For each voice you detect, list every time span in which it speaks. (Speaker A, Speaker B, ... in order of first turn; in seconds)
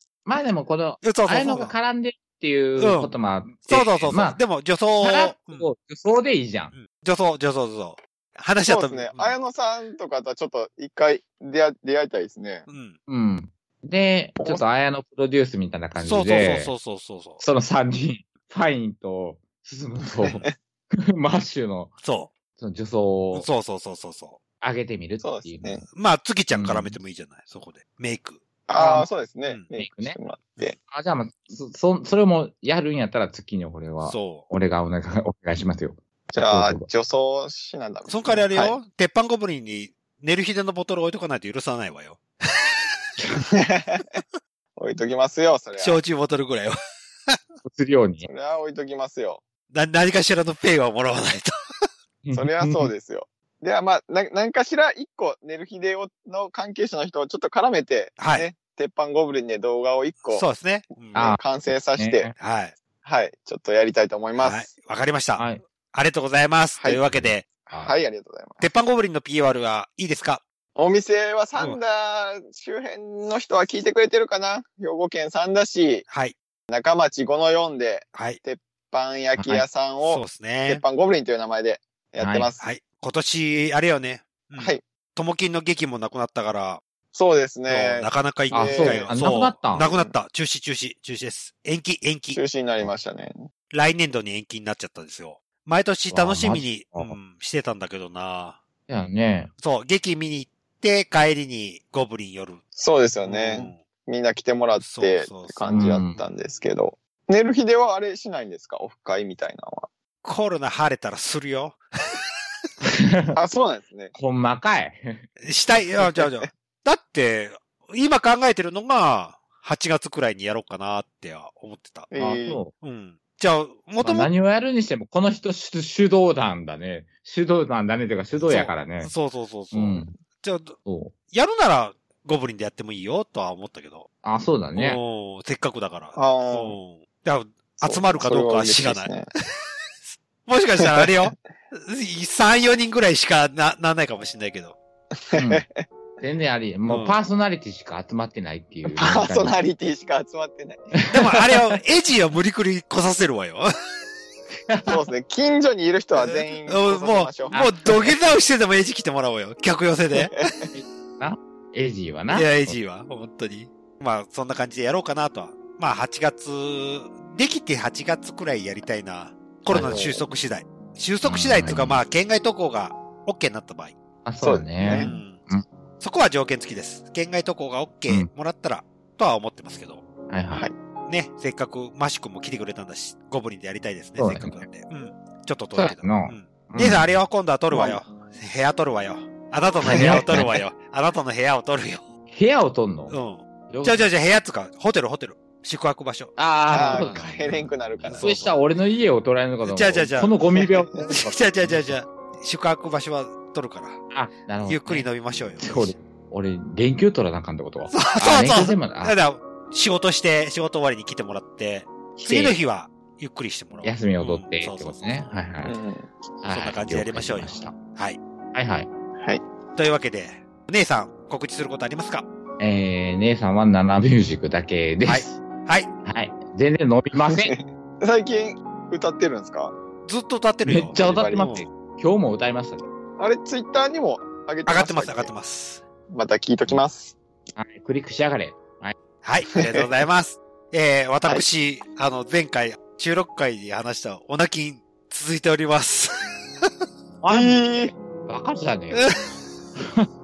Speaker A: 0.2-4.4, 5.0-6.7, 13.1-16.7, 17.4-20.5, 21.1-22.0, 22.6-23.5, 24.6-25.9, 26.5-27.0, 28.8-29.1, 29.7-30.2, 30.8-36.9, 47.6-48.3, 52.2-52.9, 61.1-61.4, 62.0-62.3, 65.4-65.6, 67.0-67.9, 79.4-79.6, 82.2-82.5, 88.5-89.9, 96.1-97.1, 98.9-99.5, 105.7-106.2, 112.8-113.4, 114.1-115.2, 122.2-122.7, 124.0-129.1, 129.7-130.1, 130.8-131.1, 134.2-135.0, 145.3-145.7, 146.2-149.6, 151.0-151.7, 154.7-154.9, 157.5-158.2, 160.7-162.8, 169.7-170.2, 171.2-172.0, 174.2-175.6, 180.3-180.7, 184.2-184.7, 185.7-187.1, 189.9-190.6, 192.3-193.2, 193.7-194.1, 196.4-197.6, 198.1-201.9, 204.1-205.1, 205.6-209.2, 212.2-212.6, 213.8-215.8, 216.4-217.7, 218.5-218.9, 222.6-225.4, 226.0-227.5, 230.7-232.8, 237.6-238.9, 247.2-249.0, 249.8-250.1
Speaker B: 1.0-1.7, 2.8-3.1, 3.6-5.7, 6.7-9.3, 12.7-13.0, 16.0-17.4, 22.0-22.3, 23.3-24.4, 25.9-28.4, 34.0-34.5, 38.1-42.8, 45.8-46.8, 49.7-51.5, 58.2-58.5, 60.3-61.3, 62.4-62.7, 64.4-67.5, 68.6-70.4, 76.1-76.3, 80.0-80.8, 82.6-86.8, 87.7-92.4, 93.7-98.6, 99.6-102.6, 103.2-103.8, 104.8-106.3, 110.2-112.2, 115.4-122.1, 122.8-124.3, 128.4-130.8, 131.3-134.1, 134.7-139.2, 140.0-144.8, 146.9-147.2, 151.1-153.7, 156.2-160.4, 162.3-173.9, 174.9-175.4, 176.0-180.0, 181.1-192.1, 193.1-198.5, 199.7-200.4, 201.0-204.0, 204.7-206.0, 207.9-215.3, 216.5-218.2, 219.7-222.2, 225.1-225.9, 230.1-231.7, 234.7-235.8, 239.2-246.1, 248.9-249.4
Speaker C: 8.7-12.7, 20.2-20.5, 25.2-25.8, 28.7-30.7, 36.3-38.8, 43.5-44.2, 44.8-46.0, 48.2-49.4, 52.3-60.4, 61.1-62.3, 63.0-64.7, 67.7-68.7, 70.8-76.0, 76.7-82.7, 84.5-84.8, 87.1-89.1, 89.7-90.1, 92.3-93.5, 102.8-109.9, 113.3-114.1, 116.0-116.5, 122.1-122.6, 136.1-136.8, 137.8-139.3, 140.8-141.3, 145.3-145.8, 149.0-150.9, 154.9-157.6, 160.2-160.5, 174.4-175.1, 187.7-188.1, 196.7-198.3, 215.6-216.1, 227.3-229.7, 230.9-231.5, 233.2-235.3, 236.1-237.1, 247.3-247.9